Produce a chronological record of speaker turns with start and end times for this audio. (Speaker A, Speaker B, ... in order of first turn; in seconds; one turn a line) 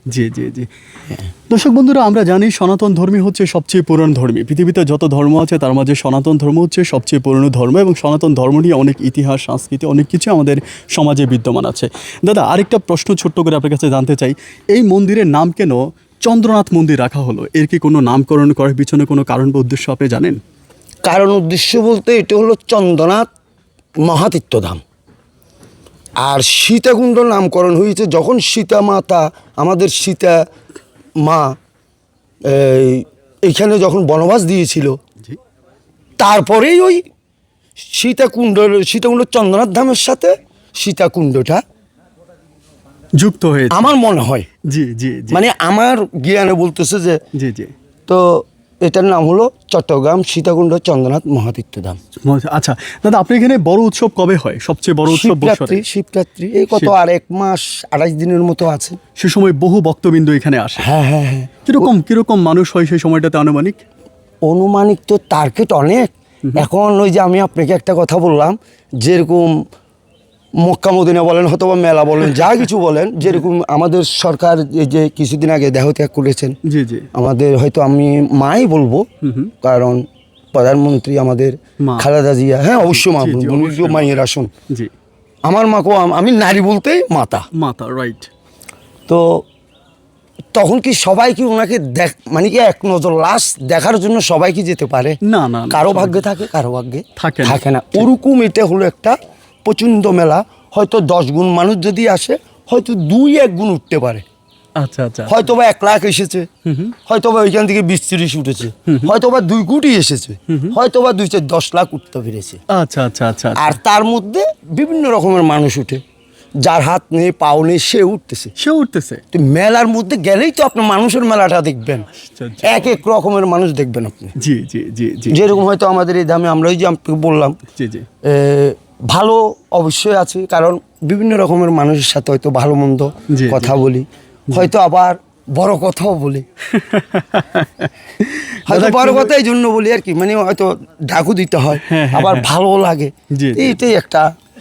Speaker A: 0.1-0.7
Speaker A: 1.5-20.4
Speaker B: 21.0-23.3
Speaker B: 24.0-24.8
Speaker B: 26.2-30.4
Speaker B: 31.2-31.6
Speaker B: 32.4-35.0
Speaker B: 36.2-37.0
Speaker B: 37.8-41.6
Speaker A: 43.2-43.9
Speaker B: 43.7-44.5
Speaker A: 44.7-45.4
Speaker B: 45.3-47.2
Speaker A: 47.4-47.7
Speaker B: 48.1-52.0
Speaker A: 52.2-55.8
Speaker B: 55.0-59.0
Speaker A: 59.2-60.9
Speaker B: 60.8-61.9
Speaker A: 61.6-63.8
Speaker B: 64.5-69.6
Speaker B: 70.6-76.5
Speaker A: 76.7-77.1
Speaker B: 77.1-79.1
Speaker A: 79.2-79.5
Speaker B: 79.6-84.5
Speaker A: 82.9-84.1
Speaker B: 85.4-87.5
Speaker A: 87.5-88.3
Speaker B: 89.1-89.4
Speaker B: 90.5-95.2
Speaker A: 95.2-96.3
Speaker B: 95.7-104.2
Speaker A: 97.2-98.0
Speaker A: 104.8-105.4
Speaker B: 105.2-106.5
Speaker A: 106.7-106.9
Speaker B: 107.0-112.6
Speaker A: 110.5-110.7
Speaker A: 112.7-113.8
Speaker B: 113.5-116.0
Speaker B: 116.6-118.5
Speaker A: 118.6-119.2
Speaker B: 119.3-122.1
Speaker A: 122.2-122.9
Speaker B: 122.6-124.3
Speaker A: 124.4-125.6
Speaker B: 125.3-127.6
Speaker A: 127.7-128.1
Speaker B: 128.2-136.4
Speaker A: 133.3-133.7
Speaker A: 136.7-139.3
Speaker B: 138.7-144.3
Speaker A: 141.8-142.5
Speaker A: 143.3-143.7